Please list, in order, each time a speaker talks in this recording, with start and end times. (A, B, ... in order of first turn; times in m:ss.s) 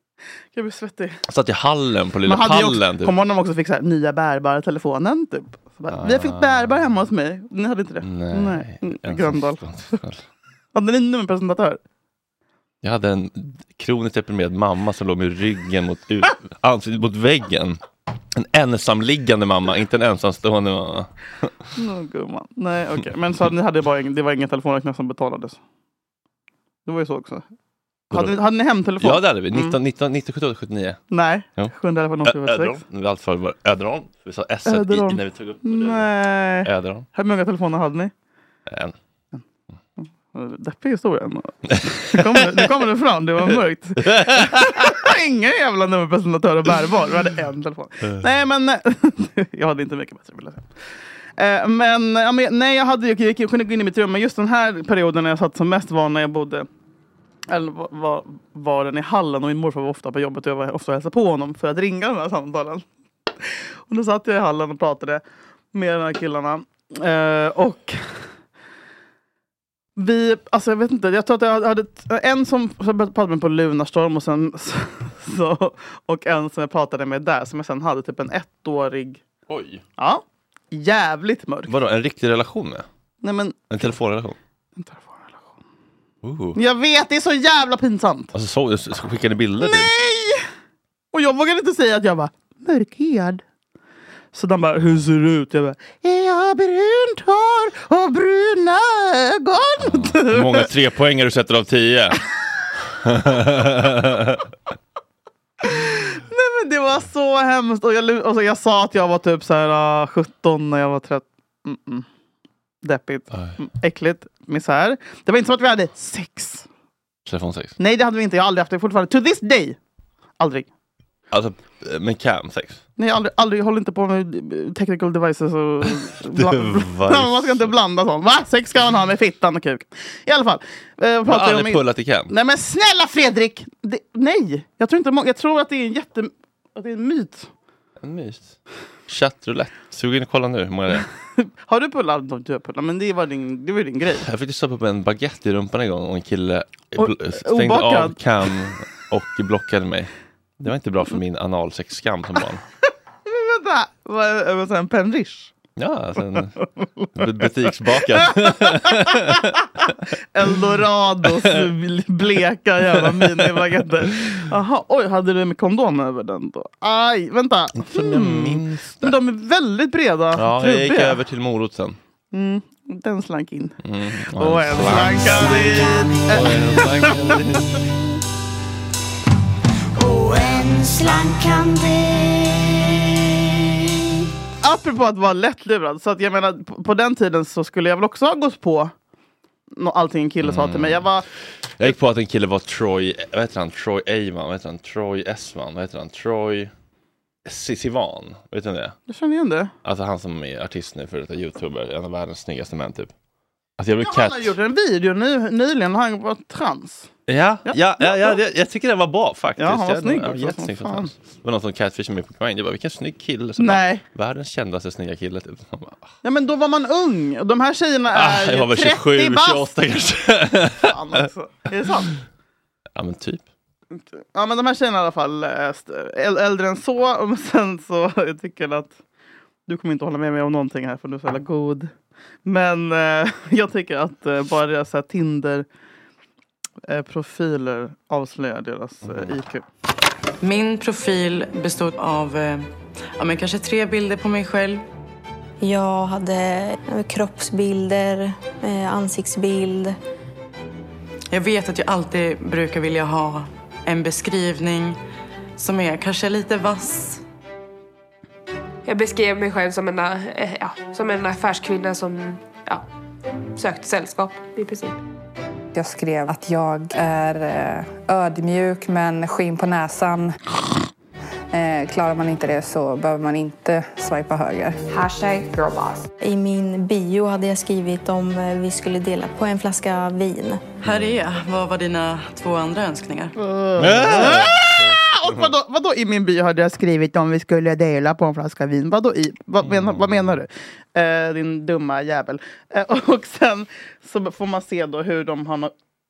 0:00.5-0:01.2 A
0:01.3-0:03.1 B
0:02.3-0:10.0 A
0:05.9-0:06.7 B
0:08.0-0:10.2 B
0:10.7-0:11.8 A
0:12.8-0:17.8 B
0:18.3-0:21.5 B
0:21.7-0:25.6 A
0:26.8-0:27.5 A
0:28.1-0:28.4 B
0:28.1-0:29.8 A
0:29.0-0:31.0 B
0:31.1-0:32.8 A
0:31.6-0:36.1 B
0:34.6-0:38.1 A
0:36.6-0:37.0 B
0:38.7-0:38.9 B
0:40.0-0:50.7 A
0:41.7-0:42.6 B
0:44.0-0:45.0 B
0:51.4-0:56.7 A
0:57.5-1:02.8 A
1:03.9-1:05.2 A
1:05.7-1:08.1 A
1:10.0-1:19.2 A
1:19.5-1:19.8 B
1:20.0-1:21.7 A
1:21.7-1:22.8 B
1:23.2-1:23.8 A
1:23.7-1:24.4 B
1:24.8-1:25.5 A
1:26.2-1:26.6 B
1:26.6-1:28.3 A
1:28.3-1:29.9 B
1:29.6-1:30.4 A
1:31.1-1:33.4 A
1:34.3-1:40.6 A
1:39.8-1:42.2 B
1:43.0-1:44.4 B
1:45.6-1:52.0 A
1:52.8-1:56.6 A
1:53.3-1:53.6 B
1:57.2-1:57.7 B
1:57.8-1:59.8 A
2:00.4-2:00.7 A
2:01.3-2:02.8 B
2:03.0-2:17.5 A
2:06.3-2:07.7 B
2:11.3-2:12.3 B
2:18.0-2:18.5 B
2:19.1-2:21.1 B
2:21.4-2:24.2 A
2:24.2-2:32.6 B
2:27.0-2:28.2 A
2:33.2-2:35.5 A
2:35.8-2:36.6 B
2:36.6-2:37.4 A
2:37.2-2:39.5 B
2:38.0-2:39.8 A
2:40.3-2:51.2 A
2:43.1-2:43.4 B
2:47.7-2:49.2 B
2:50.4-2:52.0 B
2:52.3-2:53.8 A
2:53.8-2:58.0 B
2:54.4-2:57.4 A
3:04.6-3:08.9 A
3:09.7-3:11.2 A
3:10.4-3:11.1 B
3:11.8-3:16.7 B
3:17.4-3:19.0 B
3:19.1-3:19.7 A
3:19.8-3:23.1 B
3:23.8-3:24.6 B
3:24.0-3:27.1 A
3:27.3-3:36.0 B
3:27.6-3:28.4 A
3:29.6-3:31.1 A
3:33.6-3:34.0 A
3:36.2-3:39.8 A
3:38.1-3:40.9 B
3:40.8-3:42.1 A
3:43.0-3:43.4 B
3:44.1-3:49.0 A
3:49.7-3:51.9 A
3:52.4-3:55.6 A
3:56.8-3:59.6 A
4:00.4-4:04.8 C
4:05.6-4:10.0 D
4:11.3-4:15.0 C
4:15.6-4:17.2 C
4:18.8-4:22.8 E
4:23.6-4:25.0 E
4:25.7-4:30.4 F
4:31.5-4:34.8 F
4:34.9-4:36.0 E
4:36.2-4:40.6 D
4:40.8-4:43.3 C
4:43.4-4:55.7 A
4:43.8-4:44.9 B
4:49.6-4:50.1 B